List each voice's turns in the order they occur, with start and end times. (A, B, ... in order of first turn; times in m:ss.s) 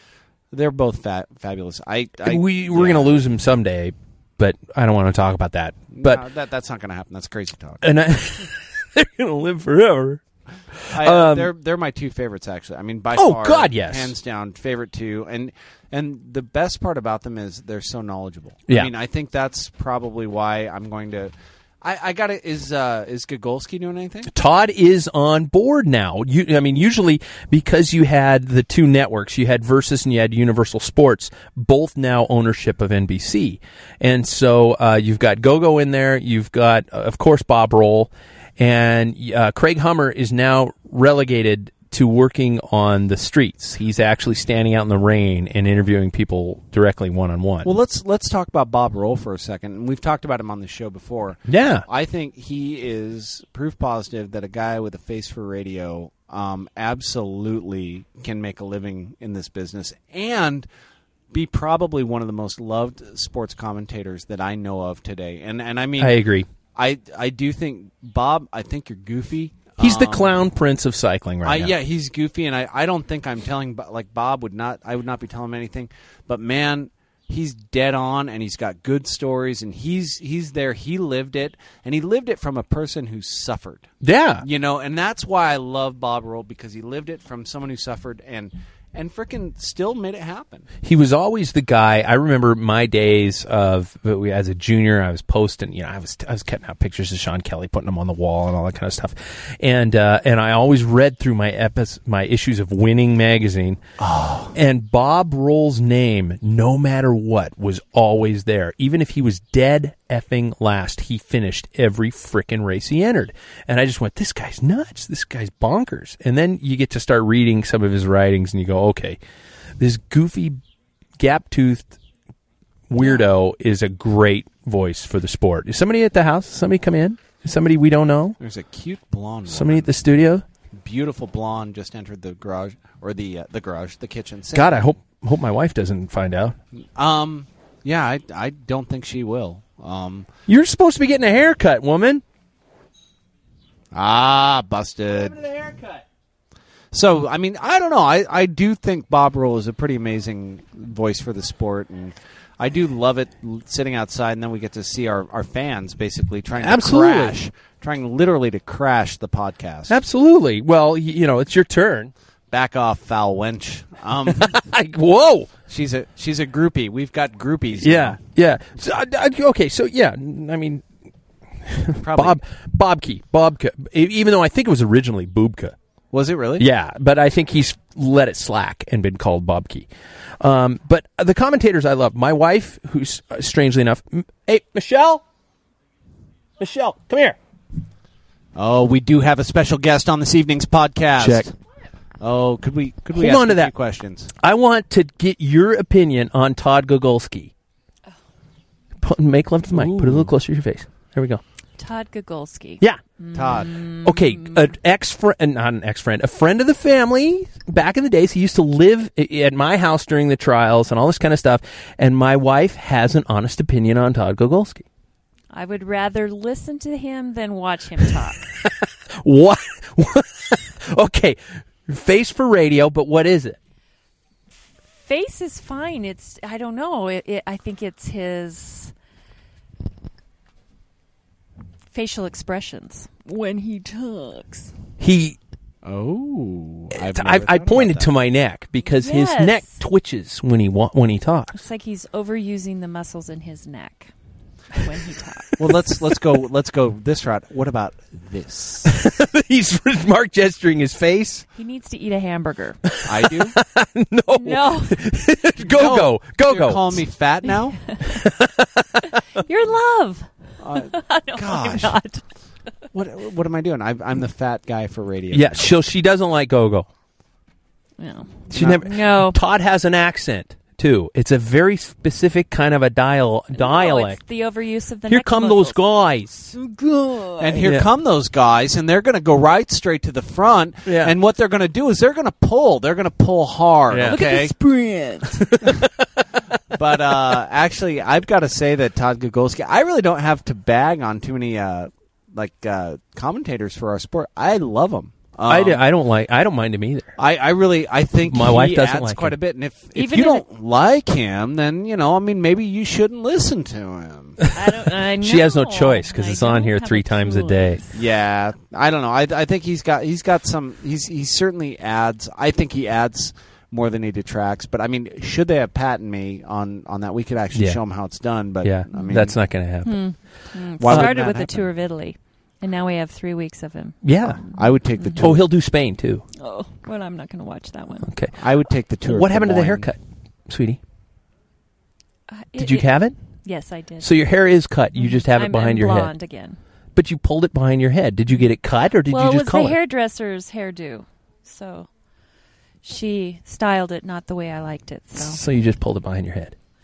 0:00.5-0:03.2 A
0:02.2-0:06.2 B
0:05.9-0:07.9 A
0:07.8-0:10.2 B
0:10.9-0:11.5 B
0:10.9-0:24.3 A
0:13.2-0:14.1 B
0:24.3-0:47.7 B
0:47.6-1:00.7 A
0:51.5-0:51.8 B
1:01.3-1:06.2 A
1:06.0-1:06.5 B
1:06.8-1:10.4 A
1:09.8-1:11.7 B
1:11.4-1:23.9 A
1:24.0-1:24.5 B
1:24.4-1:30.7 A
1:30.8-1:43.8 B
1:44.0-1:44.5 A
1:44.5-1:59.2 B
1:59.8-2:00.6 B
2:01.2-2:01.9 B
2:02.9-2:08.4 B
2:08.4-2:09.9 A
2:09.5-2:10.4 B
2:10.8-2:14.9 A
2:14.5-2:16.6 B
2:17.0-2:20.3 A
2:20.5-2:22.2 B
2:23.9-2:25.4 A
2:25.3-2:26.0 B
2:26.9-2:40.0 A
2:36.6-2:37.4 B
2:39.9-2:42.1 B
2:42.5-2:44.6 A
2:44.3-2:45.5 B
2:45.7-2:48.2 A
2:47.8-2:50.8 B
2:51.6-2:55.8 B
2:52.0-2:52.4 A
2:56.1-2:56.7 A
2:56.6-2:59.9 B
3:00.4-3:05.2 B
3:06.6-3:07.4 B
3:08.6-3:11.5 A
3:11.2-3:11.5 B
3:12.2-3:14.3 A
3:13.2-3:13.7 B
3:14.4-3:17.5 B
3:19.0-3:21.4 B
3:19.7-3:20.3 A
3:21.8-3:24.6 C
3:23.3-3:23.8 A
3:24.0-3:34.8 B
3:35.5-3:38.5 C
3:38.6-3:43.6 B
3:45.0-3:48.9 C
3:51.9-3:54.7 C
3:55.0-3:55.4 B
3:55.8-3:58.1 A
3:57.0-4:01.5 B
3:58.8-3:59.8 C
4:01.5-4:04.1 C
4:04.7-4:05.5 C
4:05.6-4:09.0 A
4:08.9-4:11.5 B
4:11.6-4:12.8 C
4:12.9-4:17.0 B
4:13.0-4:13.6 A
4:14.4-4:15.0 C
4:15.7-4:17.8 A
4:17.5-4:18.2 C
4:18.1-4:19.1 B
4:19.4-4:22.2 C
4:20.6-4:22.0 A
4:22.9-4:25.7 A
4:25.3-4:26.9 B
4:28.0-4:29.4 C
4:28.5-4:34.2 B
4:28.5-4:28.9 A
4:33.5-4:35.8 C
4:35.1-4:36.6 B
4:36.5-4:37.6 C
4:37.4-4:44.5 A
4:37.5-4:37.9 B
4:40.9-4:41.2 B
4:43.9-4:44.3 B
4:44.1-4:45.6 C
4:45.3-4:46.2 B
4:46.7-4:55.8 A
4:55.5-4:57.1 B
4:57.2-5:04.4 A
4:58.2-4:59.4 B
5:00.0-5:00.4 C
5:04.5-5:07.9 C
5:04.6-5:07.8 B
5:07.9-5:19.4 A
5:17.5-5:17.8 B
5:18.6-5:20.1 B
5:19.8-5:25.4 C
5:20.8-5:21.6 A
5:20.9-5:21.3 B
5:24.0-5:24.4 B
5:24.5-5:25.4 A
5:25.2-5:26.3 B
5:26.4-5:28.1 C
5:28.0-5:28.4 B
5:28.4-5:29.9 A
5:29.0-5:30.8 B
5:32.3-5:34.2 C
5:32.6-5:33.2 B
5:34.0-5:36.1 B
5:35.0-5:36.6 C
5:37.0-5:39.8 B
5:39.1-5:41.9 C
5:42.8-5:45.4 C
5:45.2-5:46.6 B